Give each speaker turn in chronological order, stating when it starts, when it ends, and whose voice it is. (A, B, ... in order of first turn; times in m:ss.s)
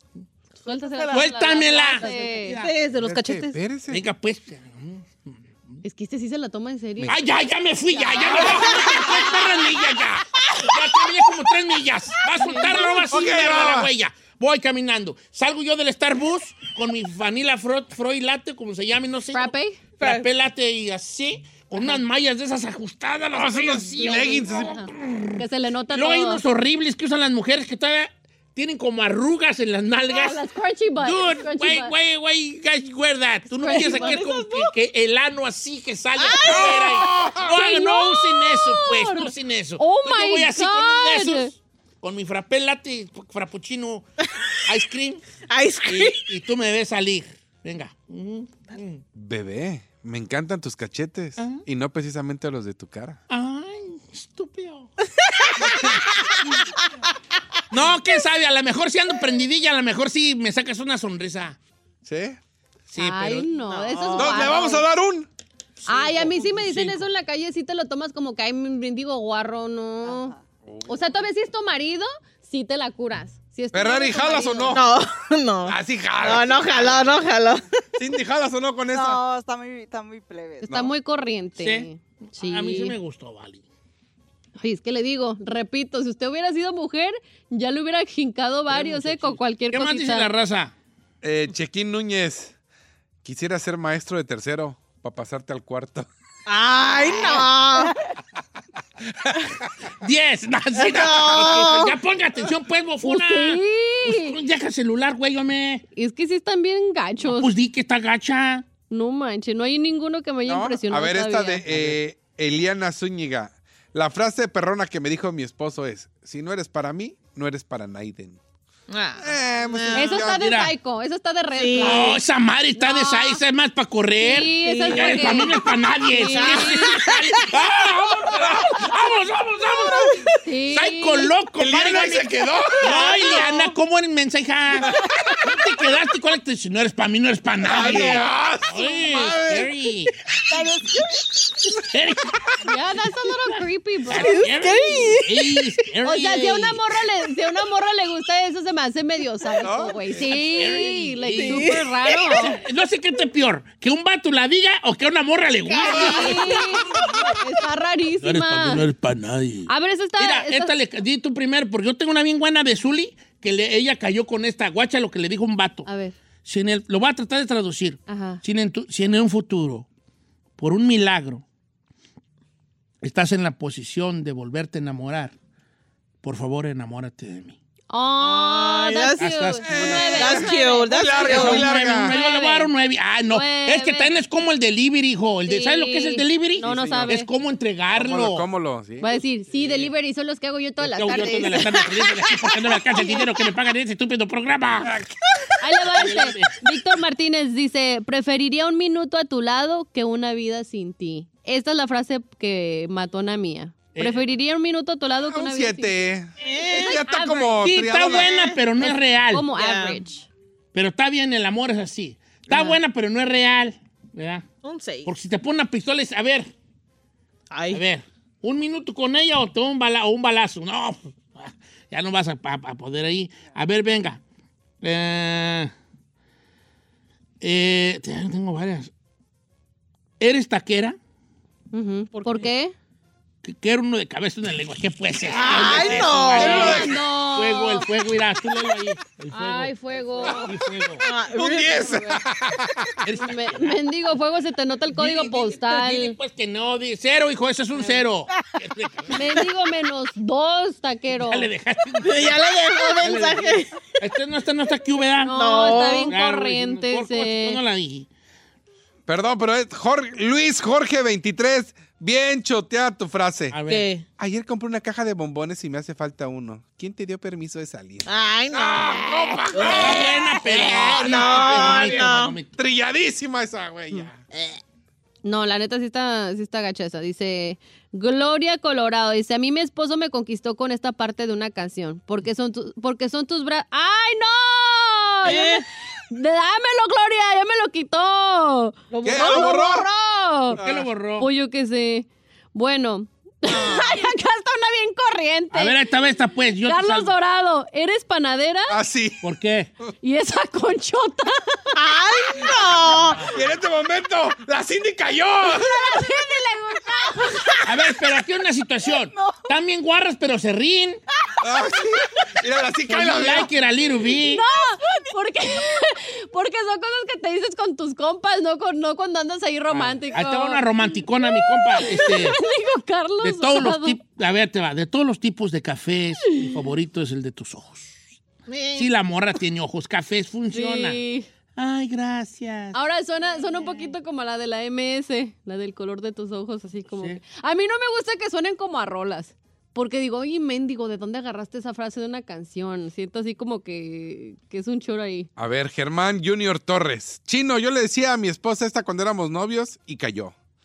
0:00.6-0:03.6 A
0:01.1-0:02.7 B
0:01.8-0:03.4 C
0:02.9-0:04.0 D
0:03.9-0:05.8 B
0:05.8-0:07.2 A
0:07.1-0:30.4 B
0:07.9-0:09.4 A
0:08.3-0:09.0 D
0:12.4-0:12.8 A
0:13.1-0:13.9 D
0:19.3-0:19.8 A
0:20.0-0:20.3 C
0:23.3-0:24.9 D
0:24.0-0:26.4 A
0:30.1-0:31.9 A
0:31.0-0:44.0 B
0:33.5-0:34.3 A
0:33.6-0:34.7 C
0:36.2-0:37.0 C
0:36.4-0:37.5 D
0:37.4-0:41.5 A
0:44.7-0:45.2 B
0:45.5-0:46.3 C
0:45.9-0:49.0 B
0:49.2-0:53.2 D
0:51.4-0:51.6 B
0:53.3-0:54.9 B
0:55.2-0:56.0 C
0:57.7-1:01.6 B
1:02.0-1:02.4 D
1:02.9-1:03.5 B
1:03.0-1:04.9 A
1:03.6-1:04.6 C
1:04.2-1:05.3 D
1:05.9-1:07.1 B
1:05.9-1:10.3 A
1:10.1-1:10.4 E
1:10.6-1:11.2 D
1:10.9-1:14.8 A
1:13.7-1:14.8 D
1:14.7-1:17.6 C
1:15.6-1:17.2 D
1:18.0-1:19.2 D
1:18.9-1:20.7 E
1:20.6-1:23.0 A
1:20.7-1:20.9 D
1:21.6-1:23.6 B
1:24.6-1:30.3 A
1:28.7-1:30.7 B
1:31.2-1:32.5 D
1:33.2-1:36.1 D
1:36.5-1:37.9 C
1:40.0-1:45.8 B
1:40.8-1:42.0 C
1:43.0-1:44.4 A
1:46.0-1:47.5 A
1:47.2-1:48.6 B
1:48.9-1:51.7 A
1:50.5-1:58.4 D
1:51.7-1:52.0 B
1:58.9-2:00.1 C
1:59.2-2:00.4 D
1:59.9-2:02.2 A
2:00.2-2:00.7 B
2:01.5-2:02.2 C
2:01.8-2:10.2 B
2:02.8-2:03.4 A
2:04.2-2:07.0 A
2:04.6-2:05.6 C
2:06.1-2:07.4 C
2:08.1-2:08.8 D
2:10.4-2:11.3 A
2:10.7-2:20.1 B
2:11.6-2:13.1 D
2:13.0-2:13.5 C
2:17.6-2:19.7 D
2:21.9-2:22.4 B
2:22.6-2:24.4 A
2:24.1-2:26.8 B
2:24.1-2:25.7 C
2:26.0-2:32.6 A
2:29.6-2:30.2 D
2:30.2-2:36.7 B
2:31.4-2:32.4 C
2:35.7-2:36.4 C
2:35.9-2:38.8 A
2:35.9-2:36.3 D
2:38.2-2:45.9 B
2:39.7-2:40.7 A
2:45.9-2:46.2 A
2:46.4-2:49.9 B
2:48.1-2:48.4 A
2:50.6-2:51.4 B
2:53.0-2:55.4 B
2:56.2-2:57.6 B
2:57.9-3:02.7 A
2:58.2-3:01.7 C
2:59.2-3:00.1 B
2:59.6-3:02.2 D
3:01.2-3:08.5 B
3:03.3-3:04.1 A
3:05.5-3:07.3 A
3:07.9-3:09.1 D
3:09.0-3:11.8 A
3:09.6-3:09.9 B
3:10.8-3:14.9 B
3:14.8-3:15.2 D
3:15.6-3:26.0 A
3:15.9-3:16.6 B
3:24.0-3:24.2 B
3:25.3-3:28.3 D
3:26.4-3:27.0 C
3:26.7-3:27.6 A
3:27.6-3:29.5 B
3:28.0-3:28.6 C
3:28.8-3:30.3 A
3:29.5-3:30.0 C
3:30.7-3:34.4 B
3:32.5-3:32.8 C
3:34.6-3:35.1 C
3:35.0-3:36.5 B
3:37.5-3:37.8 C
3:37.7-3:44.2 B
3:44.8-3:45.7 B
3:47.4-3:48.9 B
3:50.2-3:51.0 B
3:51.7-3:52.7 A
3:52.1-3:52.5 C
3:53.4-4:01.0 B
3:55.3-3:56.7 C
3:55.9-3:57.9 A
3:56.4-3:57.0 D
3:59.3-4:00.6 A
4:01.0-4:02.0 C
4:01.3-4:03.0 D
4:01.8-4:02.2 A
4:03.0-4:03.8 B
4:03.2-4:06.2 A
4:04.9-4:09.4 B
4:09.1-4:11.5 A
4:11.2-4:18.1 B
4:12.0-4:13.9 C
4:15.2-4:17.6 A
4:15.3-4:16.2 C
4:19.1-4:23.6 D
4:23.5-4:23.9 B
4:23.7-4:24.0 C
4:24.2-4:34.2 D
4:28.0-4:32.4 C
4:29.6-4:32.5 B
4:35.2-4:50.6 A
4:45.2-4:45.6 C
4:48.9-4:49.4 C
4:49.0-4:49.9 D
4:50.6-4:51.3 B
4:50.6-4:50.9 D
4:51.2-4:55.8 A
4:53.5-4:54.0 C
4:55.5-4:57.1 B
4:56.7-4:58.8 A
4:58.7-4:59.2 D
4:59.2-4:59.7 B
5:00.0-5:01.6 A
5:01.7-5:03.3 C
5:03.3-5:05.9 D
5:05.4-5:07.6 A
5:07.6-5:11.0 B
5:11.4-5:13.5 D
5:12.9-5:14.4 B
5:14.1-5:24.0 A
5:19.7-5:22.4 B
5:23.2-5:28.0 B
5:28.5-5:28.9 C
5:28.8-5:31.0 B
5:30.5-5:31.3 A
5:31.6-5:32.8 B
5:32.7-5:45.3 A
5:45.4-5:50.4 D